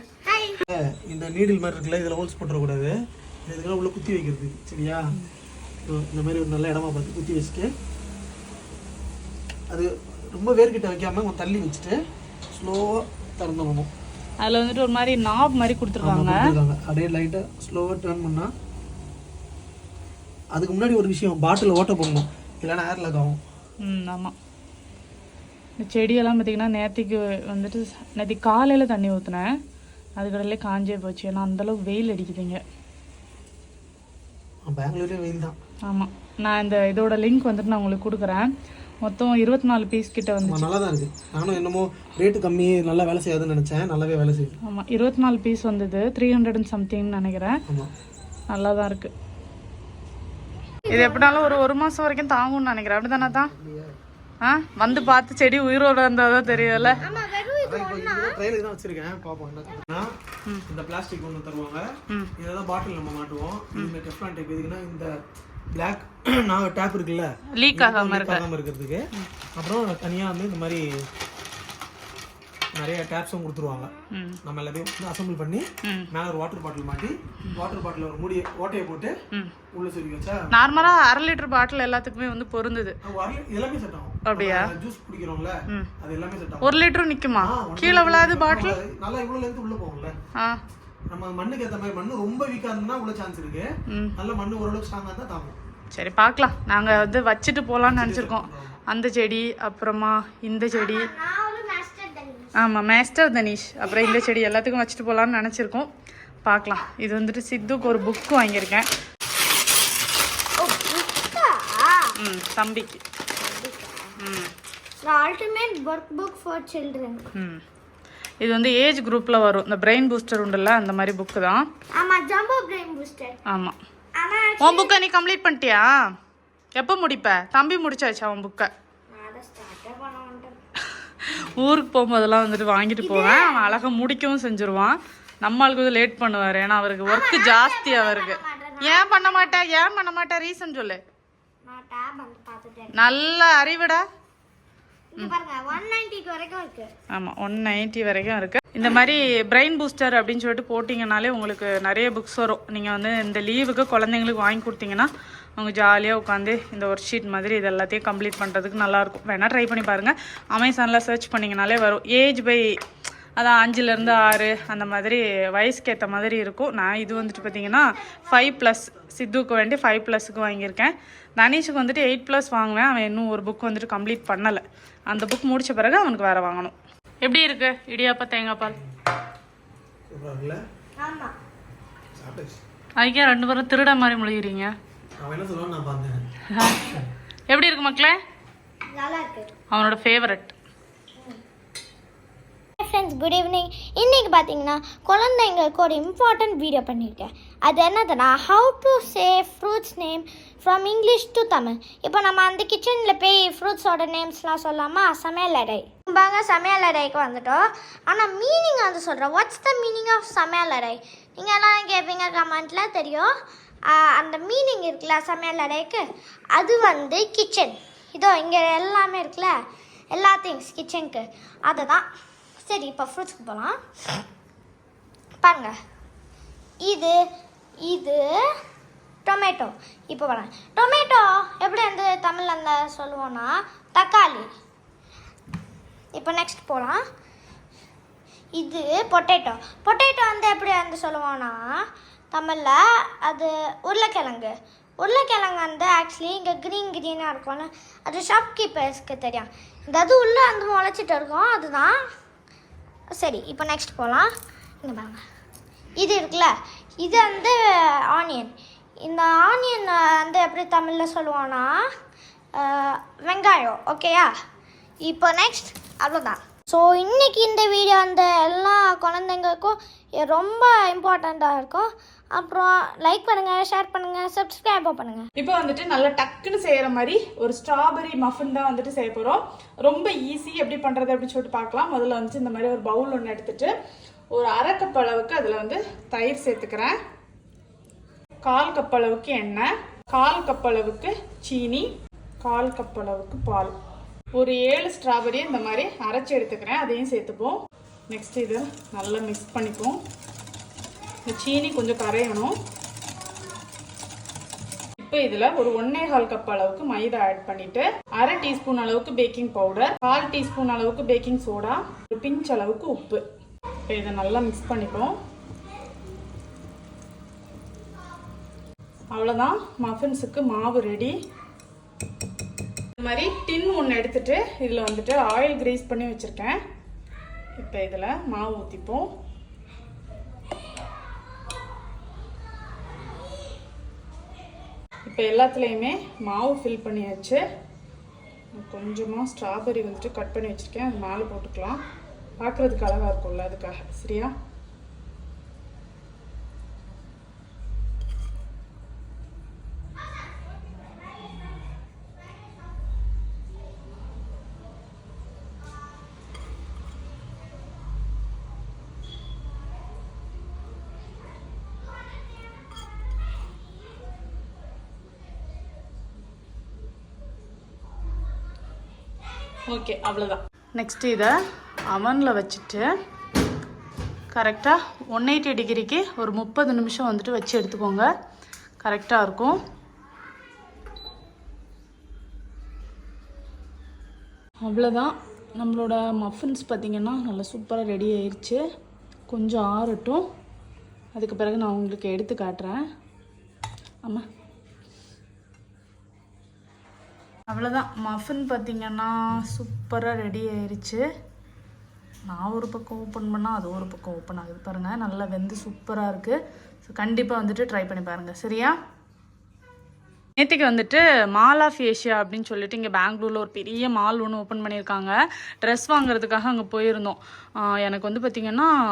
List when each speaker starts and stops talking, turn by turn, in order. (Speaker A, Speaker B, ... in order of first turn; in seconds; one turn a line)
Speaker A: 0.2-0.6
Speaker B: 0.6-5.1
Speaker B: 5.9-7.7
Speaker B: 9.7-12.0
Speaker B: 12.5-13.9
Speaker C: 14.4-16.5
Speaker B: 16.0-18.5
Speaker B: 20.5-23.4
Speaker C: 23.8-24.3
Speaker C: 25.8-29.6
Speaker C: 30.2-32.6
Speaker B: 34.6-35.6
Speaker C: 35.9-38.5
Speaker C: 39.0-40.7
Speaker B: 40.4-44.6
Speaker C: 44.6-47.6
Speaker C: 48.5-49.1
Speaker A: 50.8-51.6
Speaker C: 50.9-53.5
Speaker B: 53.2-54.0
Speaker C: 54.4-57.0
Speaker B: 56.5-60.1
Speaker A: 57.0-58.4
Speaker B: 60.7-65.1
Speaker B: 65.7-70.8
Speaker C: 67.5-68.4
Speaker B: 72.7-73.9
Speaker C: 74.1-74.4
Speaker B: 74.4-79.1
Speaker C: 75.8-76.1
Speaker B: 79.7-81.0
Speaker C: 80.5-83.0
Speaker B: 83.0-86.8
Speaker C: 84.2-84.7
Speaker C: 86.6-88.8
Speaker B: 87.4-90.2
Speaker B: 91.1-95.6
Speaker C: 93.9-94.1
Speaker C: 95.9-101.1
Speaker B: 97.8-98.8
Speaker A: 100.7-102.5
Speaker C: 102.5-105.9
Speaker A: 103.8-104.2
Speaker C: 106.4-108.9
Speaker A: 110.6-112.2
Speaker C: 112.2-113.0
Speaker A: 113.4-114.1
Speaker C: 114.2-114.5
Speaker A: 115.0-117.2
Speaker C: 117.3-117.6
Speaker C: 118.4-121.6
Speaker A: 121.9-123.4
Speaker C: 123.5-123.8
Speaker A: 124.2-125.0
Speaker C: 124.6-126.0
Speaker C: 126.7-128.7
Speaker A: 129.1-130.6
Speaker C: 131.2-141.0
Speaker A: 133.0-133.8
Speaker A: 137.1-139.7
Speaker A: 141.6-143.1
Speaker C: 142.9-144.0
Speaker A: 145.1-146.9
Speaker C: 147.1-162.8
Speaker C: 163.4-178.8
Speaker A: 167.3-168.5
Speaker B: 180.1-180.6
Speaker A: 181.0-181.3
Speaker B: 182.2-182.6
Speaker C: 183.0-184.7
Speaker B: 185.2-186.2
Speaker C: 186.5-188.2
Speaker A: 188.9-189.5
Speaker C: 189.7-190.5
Speaker A: 192.8-213.3
Speaker A: 213.9-219.5
Speaker A: 220.1-222.1
Speaker A: 222.6-223.8
Speaker A: 225.4-225.7
Speaker A: 226.8-227.2
Speaker A: 227.8-228.2
Speaker A: 229.2-234.5
Speaker A: 236.1-237.0
Speaker A: 238.6-241.6
Speaker A: 242.3-252.0
Speaker A: 253.2-254.3
Speaker A: 254.8-255.2
Speaker A: 256.0-258.5
Speaker A: 259.0-261.8
Speaker A: 262.5-264.3
Speaker A: 265.1-275.3
Speaker C: 275.4-283.7
Speaker C: 284.3-286.9
Speaker C: 288.4-291.9
Speaker C: 292.4-293.7
Speaker C: 294.3-297.6
Speaker C: 298.1-300.0
Speaker C: 301.2-302.6
Speaker C: 305.0-313.2
Speaker C: 313.9-315.1
Speaker C: 319.1-321.1
Speaker C: 322.9-326.6
Speaker C: 327.6-329.1
Speaker C: 335.1-337.4
Speaker C: 338.6-341.8
Speaker C: 342.4-344.3
Speaker C: 369.7-371.4
Speaker C: 371.9-372.9
Speaker C: 374.3-378.1
Speaker C: 378.8-379.6
Speaker C: 384.6-388.6
Speaker C: 389.3-390.2
Speaker C: 391.1-392.8
Speaker C: 397.5-401.0
Speaker C: 402.3-408.8
Speaker C: 410.4-418.7